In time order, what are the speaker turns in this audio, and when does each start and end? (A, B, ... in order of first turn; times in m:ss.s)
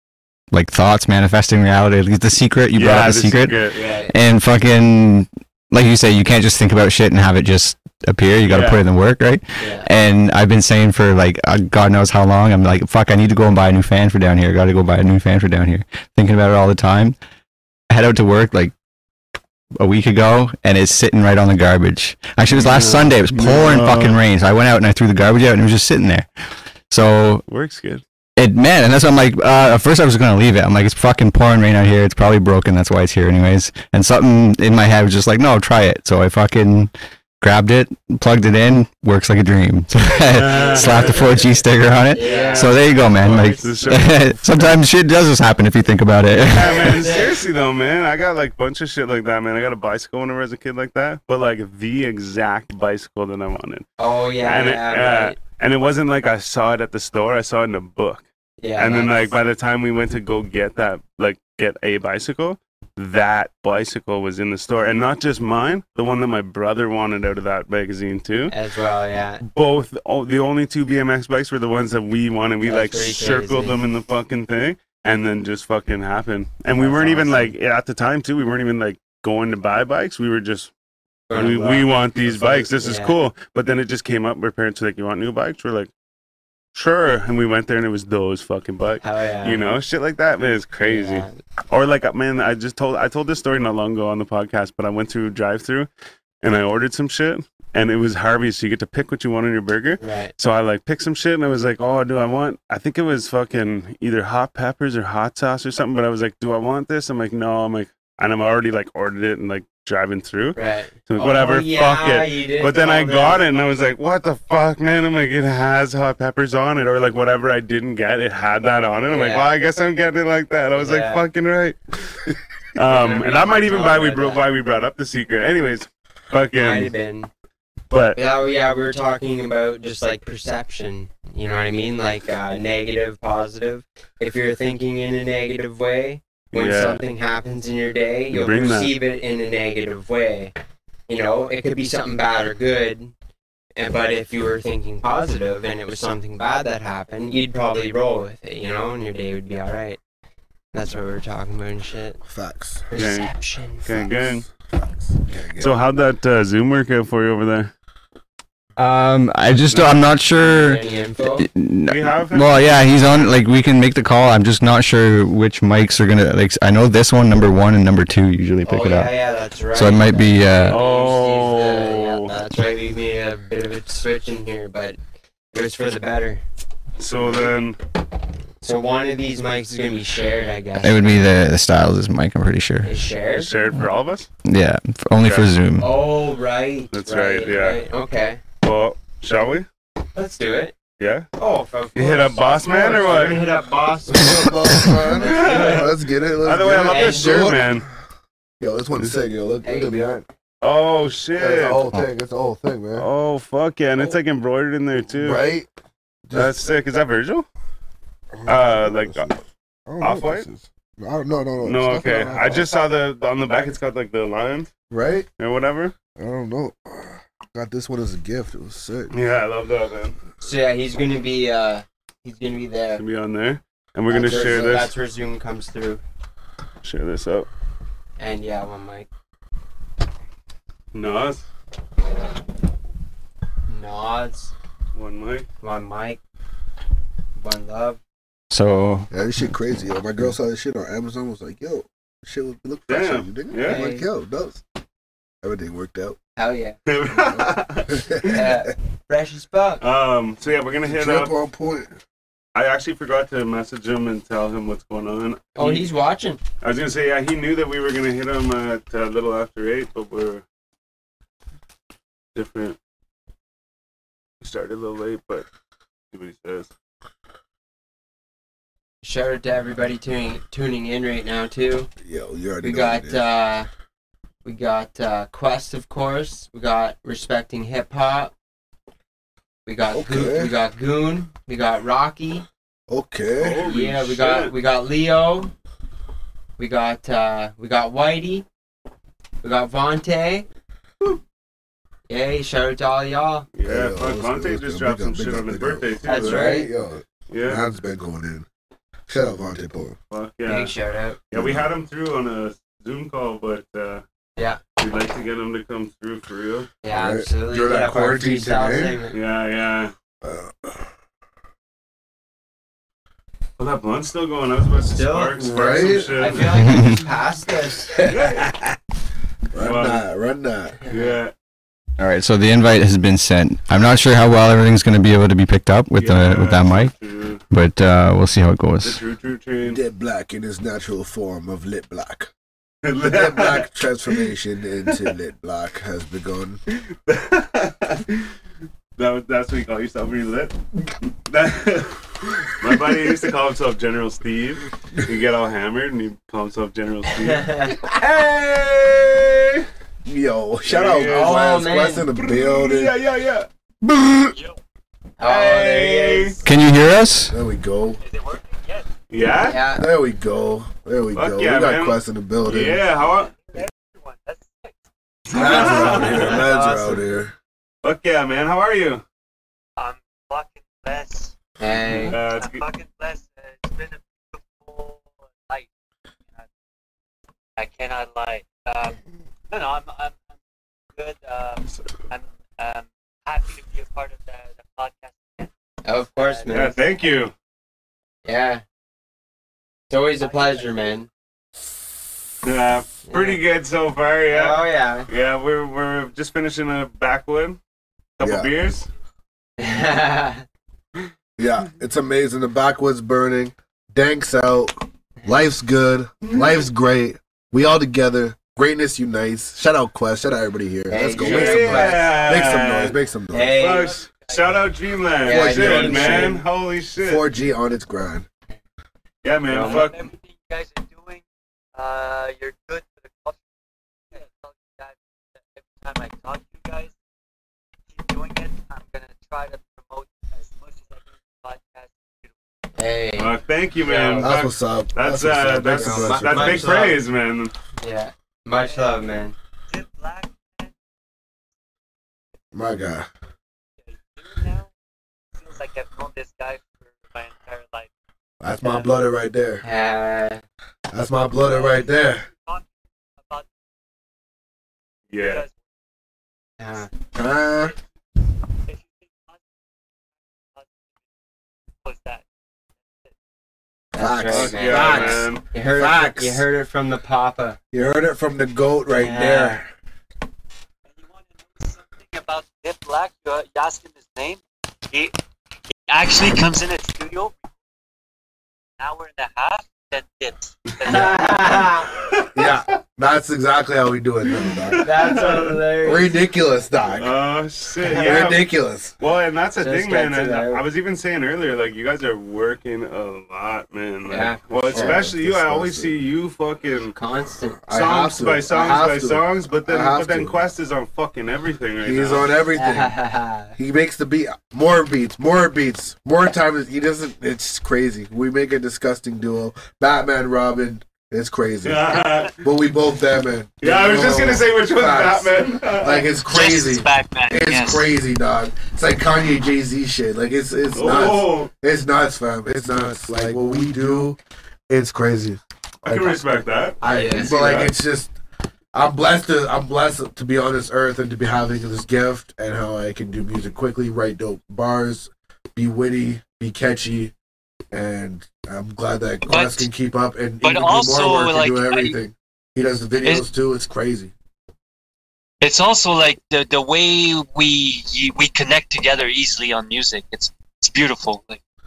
0:00.5-0:17.2 A
0:02.7-0:04.0 B
0:03.8-0:04.1 C
0:08.5-0:08.8 B
0:09.6-0:09.9 C
0:17.9-0:18.7 A
0:19.8-0:26.3 A
0:22.5-0:24.2 B
0:26.9-0:27.4 A
0:27.5-0:28.0 B
0:28.4-0:47.1 A
0:40.3-0:41.4 B
0:40.5-0:41.6 C
0:42.1-0:42.8 C
0:42.2-0:44.8 B
0:46.4-0:53.8 B
0:46.6-0:47.4 C
0:54.0-0:55.4 C
0:54.4-0:58.2 B
0:58.6-0:59.2 C
0:58.8-1:08.5 B
1:08.5-1:09.4 C
1:09.4-1:20.7 B
1:12.6-1:13.8 C
1:16.7-1:17.5 C
1:21.3-1:21.9 C
1:21.3-1:25.9 B
1:22.4-1:23.1 C
1:26.7-1:35.9 B
1:29.0-1:29.7 C
1:30.8-1:31.4 C
1:36.4-2:06.9 B
1:40.0-1:40.3 C
1:50.6-1:53.4 C
1:59.1-1:59.5 C
2:00.8-2:01.2 C
2:02.8-2:04.4 C
2:06.6-2:07.3 C
2:07.9-2:08.2 B
2:08.2-2:20.5 C
2:16.5-2:17.0 B
2:18.3-2:18.9 B
2:21.1-2:23.1 C
2:23.8-2:30.0 C
2:30.7-2:32.2 C
2:32.2-2:32.9 D
2:32.9-2:34.1 C
2:33.0-2:34.5 B
2:34.3-2:35.8 D
2:35.6-2:37.7 B
2:38.8-2:40.8 A
2:39.7-2:40.0 B
2:40.4-2:41.5 C
2:41.4-2:49.1 A
2:41.9-2:42.9 B
2:48.6-2:55.0 C
2:49.7-2:50.8 A
2:50.7-2:52.3 B
2:55.5-2:56.4 C
2:57.0-2:57.8 B
2:58.6-3:01.2 C
3:00.8-3:02.9 A
3:02.8-3:03.5 C
3:03.3-3:04.3 B
3:04.4-3:05.9 A
3:05.2-3:05.5 B
3:05.8-3:08.4 C
3:06.9-3:07.8 B
3:08.6-3:09.7 B
3:10.2-3:10.8 C
3:11.0-3:11.3 B
3:11.4-3:15.9 C
3:12.0-3:13.4 B
3:14.1-3:17.8 D
3:15.0-3:17.9 B
3:16.8-3:17.6 C
3:18.6-3:20.3 D
3:19.6-3:20.0 C
3:20.6-3:21.9 B
3:21.4-3:23.1 D
3:23.0-3:25.4 B
3:25.1-3:25.7 D
3:26.3-3:26.5 D
3:26.3-3:27.5 B
3:28.3-3:32.7 D
3:28.5-3:29.3 B
3:30.0-3:30.5 B
3:31.6-3:34.7 B
3:34.9-3:35.3 D
3:35.4-3:35.9 B
3:36.2-3:39.1 D
3:39.1-3:40.2 B
3:40.4-3:43.0 C
3:43.0-3:44.9 B
3:44.1-3:46.0 C
3:46.8-3:47.5 B
3:48.2-3:49.1 C
3:50.9-3:51.4 B
3:53.7-3:54.5 C
3:55.0-3:55.5 B
3:55.6-3:56.2 C
3:57.4-3:58.0 C
3:58.5-3:59.1 A
3:59.1-4:04.6 D
4:02.9-4:03.8 B
4:03.6-4:04.1 C
4:05.4-4:06.2 D
4:06.4-4:06.8 C
4:06.9-4:08.5 B
4:07.1-4:08.5 D
4:08.2-4:09.8 C
4:09.8-4:11.4 B
4:10.9-4:11.9 D
4:12.6-4:15.9 B
4:15.6-4:16.4 C
4:16.6-4:20.4 B
4:22.4-4:22.8 B
4:24.4-4:25.5 B
4:26.1-4:26.7 B
4:29.0-4:31.9 C
4:32.0-4:33.2 D
4:32.6-4:33.7 C
4:34.4-4:38.3 C
4:39.7-4:42.5 C
4:39.9-4:40.5 D
4:42.9-4:43.7 D
4:43.4-4:44.5 B
4:43.6-4:45.5 C
4:46.6-4:48.5 C
4:49.4-4:50.5 C
4:52.1-4:53.5 C
4:53.6-4:56.6 B
4:53.6-4:58.5 D
4:56.0-4:56.7 C
4:57.3-4:57.6 B
4:59.1-5:00.0 D
5:00.1-5:00.7 B
5:00.5-5:01.2 C
5:01.3-5:04.0 B
5:01.3-5:01.7 D
5:04.8-5:06.7 B
5:06.8-5:09.2 C
5:06.9-5:09.0 D
5:09.1-5:09.9 B
5:10.2-5:10.9 D
5:13.6-5:16.9 B
5:14.9-5:18.1 C
5:15.4-5:16.4 D
5:16.6-5:17.0 A
5:18.0-5:18.8 D
5:18.0-5:18.5 B
5:19.5-5:20.8 D
5:19.6-5:20.0 B
5:20.9-5:21.3 B
5:20.9-5:21.2 C
5:22.0-5:26.9 A
5:25.9-5:27.4 B
5:27.5-5:29.0 A
5:28.8-5:29.8 B
5:29.6-5:32.3 D
5:32.8-5:34.3 B
5:33.0-5:36.6 D
5:34.8-5:35.1 B
5:36.7-5:38.3 B
5:39.0-5:40.6 B
5:41.2-5:49.6 B
5:47.1-5:47.8 C
5:50.0-5:53.0 D
5:50.7-5:51.5 B
5:51.0-5:52.1 C
5:52.2-5:53.5 B
5:53.8-5:54.3 D
5:54.3-5:54.6 E
5:55.2-5:56.4 C
5:55.2-5:56.4 B
5:56.4-5:57.4 A
5:57.3-5:58.0 D
5:58.0-5:58.9 E
5:59.1-5:59.6 B
5:59.4-5:59.9 C
5:59.8-6:02.8 D
6:01.1-6:03.3 B
6:03.4-6:04.8 E
6:05.3-6:06.5 B
6:05.3-6:07.3 D
6:05.4-6:07.0 C
6:07.8-6:09.0 B
6:09.8-6:11.3 E
6:11.6-6:12.2 C
6:12.0-6:12.6 B
6:12.0-6:15.7 E
6:17.6-6:19.0 E
6:19.5-6:20.2 E
6:21.0-6:25.5 E
6:25.8-6:26.7 C
6:26.2-6:27.2 E
6:26.5-6:27.3 B
6:28.2-6:28.6 C
6:29.9-6:31.1 C
6:30.2-6:31.0 E
6:32.4-6:37.6 B
6:33.1-6:33.4 C
6:34.3-6:35.1 C
6:38.2-6:38.9 B
6:38.2-6:38.5 D
6:39.6-6:40.4 C
6:41.4-6:53.6 D
6:46.2-6:46.6 B
6:50.9-6:52.2 C
6:51.2-6:53.0 B
6:52.1-6:52.5 E
6:53.3-6:54.0 C
6:53.5-6:57.3 B
6:53.6-6:55.0 E
6:55.2-6:56.4 C
6:55.3-6:56.4 D
6:57.0-6:58.3 D
6:59.2-7:00.1 B
6:59.5-6:59.9 C
6:59.5-7:01.2 E
7:01.8-7:03.4 E
7:04.1-7:06.9 E
7:07.9-7:12.4 E
7:12.8-7:14.3 C
7:13.2-7:17.5 B
7:13.9-7:14.2 E
7:14.2-7:16.8 D
7:15.7-7:17.0 C
7:17.8-7:19.4 C
7:18.6-7:19.1 E
7:19.7-7:20.7 E
7:22.5-7:23.1 D
7:23.8-7:24.7 E
7:25.4-7:27.9 E
7:28.4-7:29.6 D
7:28.6-7:28.9 E
7:29.6-7:30.4 C
7:30.9-7:32.3 D
7:31.4-7:32.7 E
7:33.2-7:33.5 E
7:35.1-7:35.4 B
7:35.2-7:35.6 E
7:36.6-7:36.9 C
7:37.1-7:37.7 D
7:38.7-7:39.4 E
7:41.8-7:42.2 E
7:43.9-7:46.4 D
7:43.9-7:47.6 C
7:44.3-7:45.4 B
7:47.7-7:49.7 D
7:48.9-7:49.6 C
7:50.9-7:55.2 E
7:55.9-7:57.4 E
7:58.8-8:01.7 E
8:00.9-8:01.9 C
8:01.9-8:02.6 B
8:02.3-8:04.9 D
8:04.3-8:05.6 B
8:04.8-8:06.2 C
8:05.8-8:07.2 D
8:06.9-8:17.0 B
8:07.8-8:08.4 C
8:07.9-8:09.0 D
8:09.6-8:10.6 C
8:14.1-8:15.1 C
8:14.7-8:16.0 D
8:16.9-8:17.7 C
8:17.7-8:20.4 D
8:17.7-8:22.3 B
8:21.8-8:22.9 D
8:22.6-8:23.6 C
8:23.6-8:44.2 D
8:31.6-8:32.4 B
8:33.6-8:36.2 B
8:36.3-8:37.9 E
8:40.7-8:41.5 B
8:44.7-8:46.2 D
8:45.8-8:47.7 B
8:46.8-8:48.2 D
8:46.8-8:47.3 C
8:48.7-8:57.1 D
8:57.7-9:04.1 D
8:59.3-8:59.7 E
9:00.4-9:02.0 E
9:05.4-9:11.4 E